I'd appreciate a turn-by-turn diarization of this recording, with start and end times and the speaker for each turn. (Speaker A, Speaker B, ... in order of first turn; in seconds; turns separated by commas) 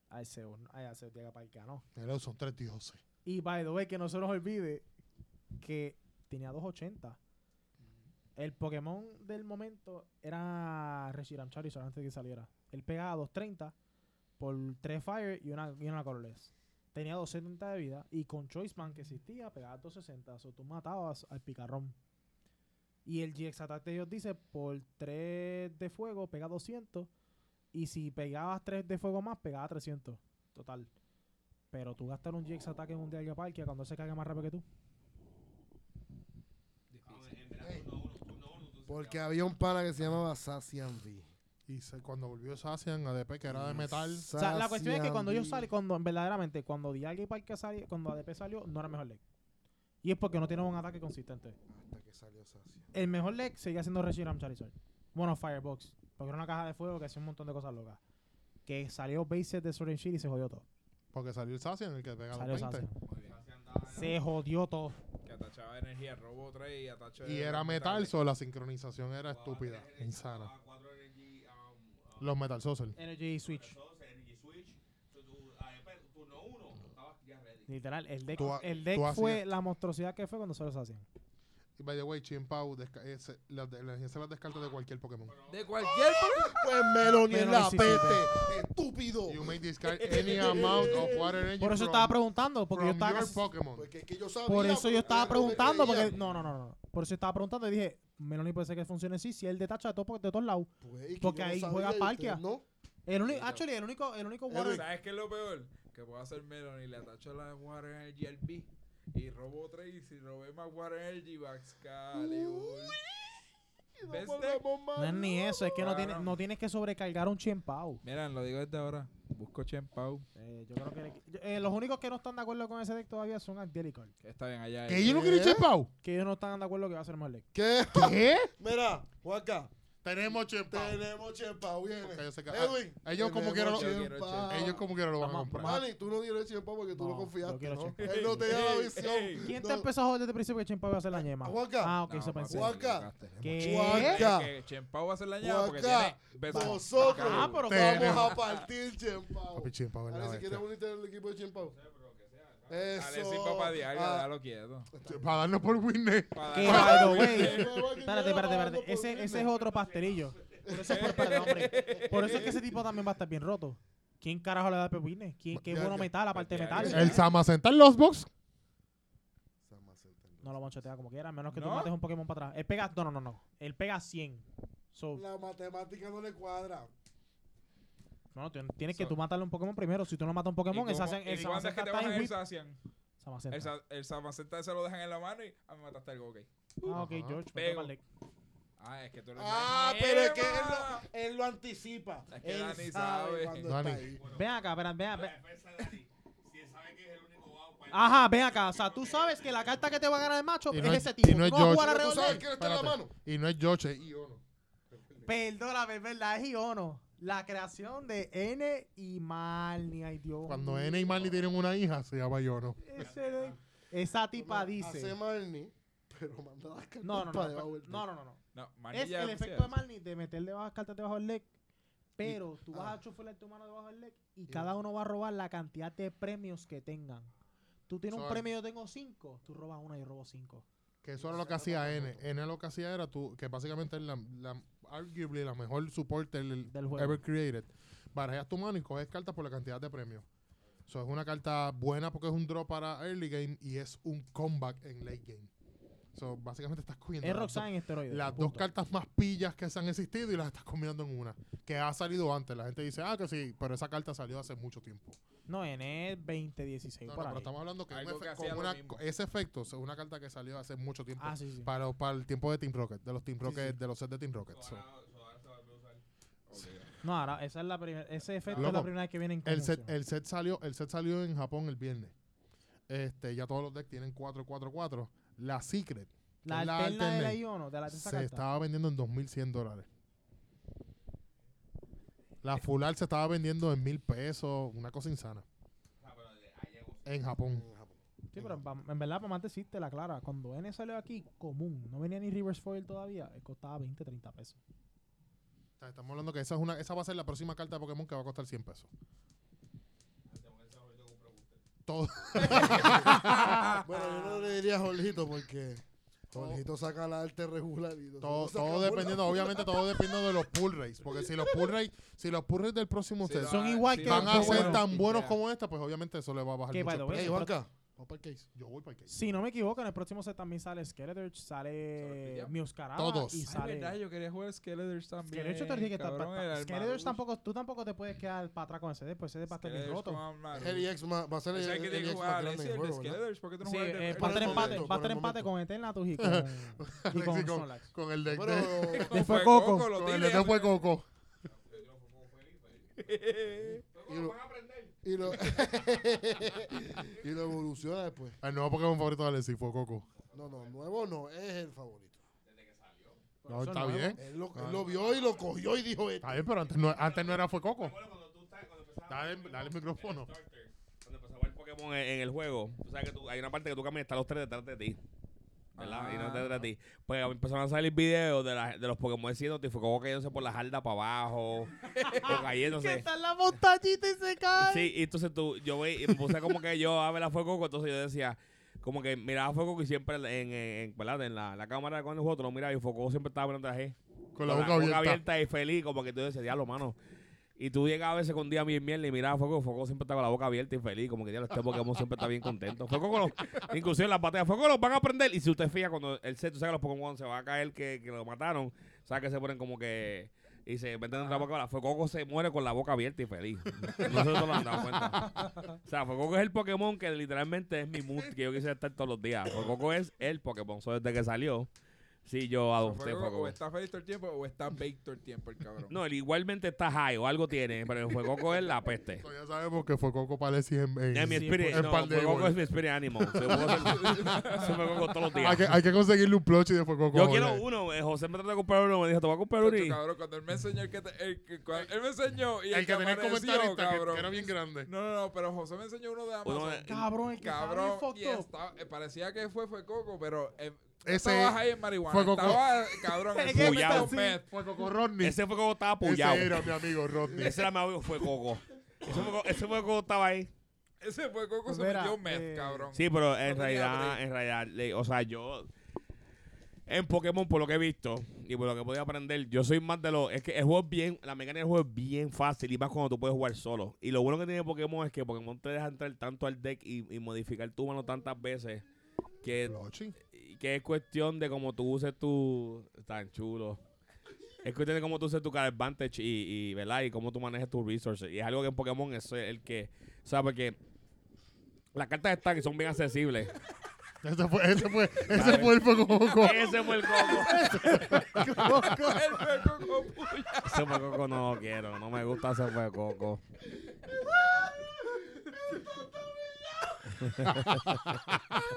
Speaker A: 0.1-1.9, Speaker B: 2.0-3.0, Speaker A: 3.2-4.8, Speaker A: 5.6-7.2, Speaker C: 7.8-8.1, Speaker A: 8.4-13.8, Speaker A: 14.4-22.0, Speaker A: 23.1-27.1, Speaker A: 27.7-30.9, Speaker A: 31.7-34.6, Speaker C: 36.9-37.3, Speaker D: 37.1-39.3, Speaker E: 37.6-37.9, Speaker E: 38.9-41.3, Speaker B: 41.7-44.3, Speaker E: 43.5-45.7, Speaker A: 44.3-49.2, Speaker A: 50.0-51.6, Speaker E: 51.7-52.9, Speaker A: 52.9-58.0, Speaker A: 58.7-60.6, Speaker B: 61.1-62.9, Speaker A: 62.3-63.0, Speaker C: 63.1-63.4, Speaker D: 63.2-64.2, Speaker A: 63.9-65.0, Speaker C: 65.2-68.1, Speaker B: 67.2-70.5, Speaker D: 69.3-72.3, Speaker B: 72.2-73.0, Speaker A: 73.0-73.8, Speaker D: 73.4-77.7, Speaker A: 77.7-81.0, Speaker D: 78.3-78.8, Speaker B: 78.4-79.5, Speaker B: 81.8-85.4, Speaker D: 85.2-85.7, Speaker C: 85.5-86.6, Speaker E: 85.9-91.5, Speaker A: 87.0-88.2, Speaker B: 89.3-92.2, Speaker C: 90.4-91.0, Speaker A: 91.6-93.5, Speaker B: 92.7-93.9, Speaker E: 93.8-96.2, Speaker A: 94.5-100.7, Speaker C: 95.0-96.5, Speaker E: 100.8-102.7, Speaker A: 101.2-102.4, Speaker A: 103.1-104.8, Speaker C: 103.2-103.6, Speaker E: 104.5-104.9, Speaker C: 104.7-113.0, Speaker E: 112.2-113.2, Speaker E: 114.0-115.8, Speaker C: 114.0-114.6, Speaker A: 115.0-118.0, Speaker C: 115.8-116.3, Speaker C: 118.0-120.3, Speaker A: 120.4-124.1, Speaker C: 124.2-125.3, Speaker B: 124.9-125.9, Speaker E: 125.0-125.7, Speaker A: 126.0-127.5, Speaker E: 127.5-129.7, Speaker B: 127.9-128.5, Speaker B: 130.0-131.1, Speaker E: 130.7-134.8, Speaker B: 132.0-135.8, Speaker C: 133.6-134.8, Speaker A: 135.2-135.9, Speaker E: 135.6-139.9, Speaker A: 136.9-138.5, Speaker C: 138.0-139.5, Speaker A: 139.4-142.8, Speaker E: 141.1-141.9, Speaker C: 142.1-147.6, Speaker E: 142.5-144.5, Speaker A: 143.4-144.3, Speaker E: 145.4-151.8, Speaker A: 146.5-148.3, Speaker B: 147.7-148.3, Speaker C: 148.2-148.7, Speaker B: 149.5-150.6, Speaker D: 151.6-153.1, Speaker E: 152.7-154.3, Speaker C: 152.9-154.9, Speaker E: 154.9-155.5, Speaker B: 155.1-157.8, Speaker C: 156.3-157.7, Speaker A: 156.5-167.2, Speaker E: 156.6-159.6, Speaker D: 159.6-160.6, Speaker E: 160.7-162.5, Speaker C: 160.8-162.6, Speaker B: 165.5-166.1, Speaker C: 166.3-167.2, Speaker B: 166.8-168.3, Speaker E: 169.6-170.8, Speaker A: 170.4-175.2, Speaker C: 171.5-171.9, Speaker E: 175.2-176.9, Speaker A: 178.3-182.3, Speaker C: 180.7-182.8, Speaker A: 183.2-183.7, Speaker C: 183.5-187.0, Speaker A: 186.8-188.0, Speaker B: 186.9-187.4, Speaker C: 187.6-187.9, Speaker C: 188.8-191.0, Speaker E: 189.4-194.2, Speaker C: 192.3-193.7, Speaker B: 193.7-194.1, Speaker D: 194.0-199.7, Speaker A: 194.3-195.9, Speaker A: 197.9-202.5, Speaker B: 200.7-205.3, Speaker E: 201.7-203.1, Speaker A: 205.3-211.1, Speaker B: 210.5-212.8, Speaker A: 212.8-215.2, Speaker D: 213.0-213.6, Speaker E: 214.4-218.1, Speaker A: 217.0-218.4, Speaker C: 218.5-219.8, Speaker A: 218.9-221.5, Speaker A: 222.2-227.3, Speaker E: 222.2-223.0, Speaker A: 227.9-230.6, Speaker B: 228.1-228.5, Speaker B: 231.0-240.2, Speaker E: 231.2-232.3, Speaker A: 236.7-237.2, Speaker B: 240.9-245.5, Speaker B: 246.2-255.2, Speaker A: 247.2-248.7, Speaker A: 255.5-257.5, Speaker B: 257.1-264.9, Speaker C: 257.9-259.0, Speaker A: 261.2-261.7, Speaker A: 263.4-263.7, Speaker D: 264.5-266.0, Speaker C: 266.5-266.9, Speaker A: 267.0-269.9, Speaker C: 268.5-268.8, Speaker B: 268.5-268.9, Speaker B: 269.4-272.1, Speaker B: 272.9-279.9, Speaker A: 276.4-278.4, Speaker B: 282.4-285.4, Speaker D: 286.0-287.4, Speaker B: 287.1-287.6, Speaker E: 287.4-288.0, Speaker A: 288.3-294.6, Speaker B: 288.4-288.6, Speaker B: 295.8-298.9, Speaker D: 300.3-301.6, Speaker B: 301.9-303.8, Speaker E: 302.4-310.2, Speaker C: 302.4-303.8, Speaker A: 302.9-304.6, Speaker B: 306.3-306.6, Speaker B: 308.2-317.4, Speaker E: 311.3-311.7, Speaker C: 313.2-315.4, Speaker A: 313.4-314.9, Speaker A: 316.7-317.6, Speaker E: 317.1-318.5, Speaker B: 318.6-319.4, Speaker A: 319.1-324.0, Speaker C: 322.0-322.6, Speaker B: 323.0-323.5, Speaker C: 323.5-327.2, Speaker A: 325.3-330.2, Speaker C: 329.5-330.9, Speaker E: 330.5-333.2, Speaker C: 331.5-334.9, Speaker A: 333.6-337.9, Speaker E: 334.1-335.5, Speaker B: 336.2-339.1, Speaker E: 338.3-339.2, Speaker C: 338.4-340.9, Speaker A: 339.1-339.9, Speaker B: 339.7-341.1, Speaker D: 341.4-345.8, Speaker C: 343.0-343.8, Speaker E: 344.1-344.3, Speaker E: 345.0-348.4, Speaker B: 348.4-350.1, Speaker D: 350.1-350.8, Speaker E: 350.3-352.2, Speaker D: 352.4-353.2, Speaker A: 353.4-354.2, Speaker B: 353.5-354.9, Speaker E: 354.2-356.5, Speaker D: 354.6-355.5, Speaker B: 356.2-358.0, Speaker D: 356.8-365.0, Speaker B: 359.1-360.3, Speaker C: 365.8-366.7, Speaker D: 365.8-373.1, Speaker C: 371.9-372.5, Speaker A: 372.1-374.9, Speaker D: 374.6-387.0, Speaker B: 384.4-385.2, Speaker D: 387.6-411.7, Speaker B: 403.9-405.2, Speaker D: 412.2-413.6, Speaker C: 412.8-416.0, Speaker D: 415.9-419.2, Speaker B: 419.2-422.6, Speaker D: 421.1-425.8, Speaker A: 421.2-422.1, Speaker B: 423.2-424.4, Speaker C: 423.9-425.1, Speaker B: 425.4-427.6, Speaker D: 427.1-430.0, Speaker C: 429.6-436.9, Speaker B: 432.7-434.9, Speaker D: 436.4-437.1, Speaker A: 436.9-438.5, Speaker C: 437.4-444.5, Speaker B: 441.0-442.9, Speaker A: 443.2-444.4, Speaker D: 443.5-444.1, Speaker B: 444.5-445.4, Speaker D: 445.2-446.8, Speaker B: 446.0-447.7, Speaker D: 447.3-450.5, Speaker C: 451.0-454.2, Speaker A: 451.7-452.9, Speaker D: 452.9-455.7, Speaker D: 456.9-468.9, Speaker D: 469.4-473.8, Speaker B: 469.6-470.1, Speaker D: 474.6-480.8, Speaker D: 481.9-483.5, Speaker B: 484.2-489.2, Speaker D: 485.2-487.8, Speaker C: 487.1-491.1, Speaker A: 487.4-489.4, Speaker D: 490.6-493.4, Speaker D: 497.2-498.3, Speaker B: 497.4-498.1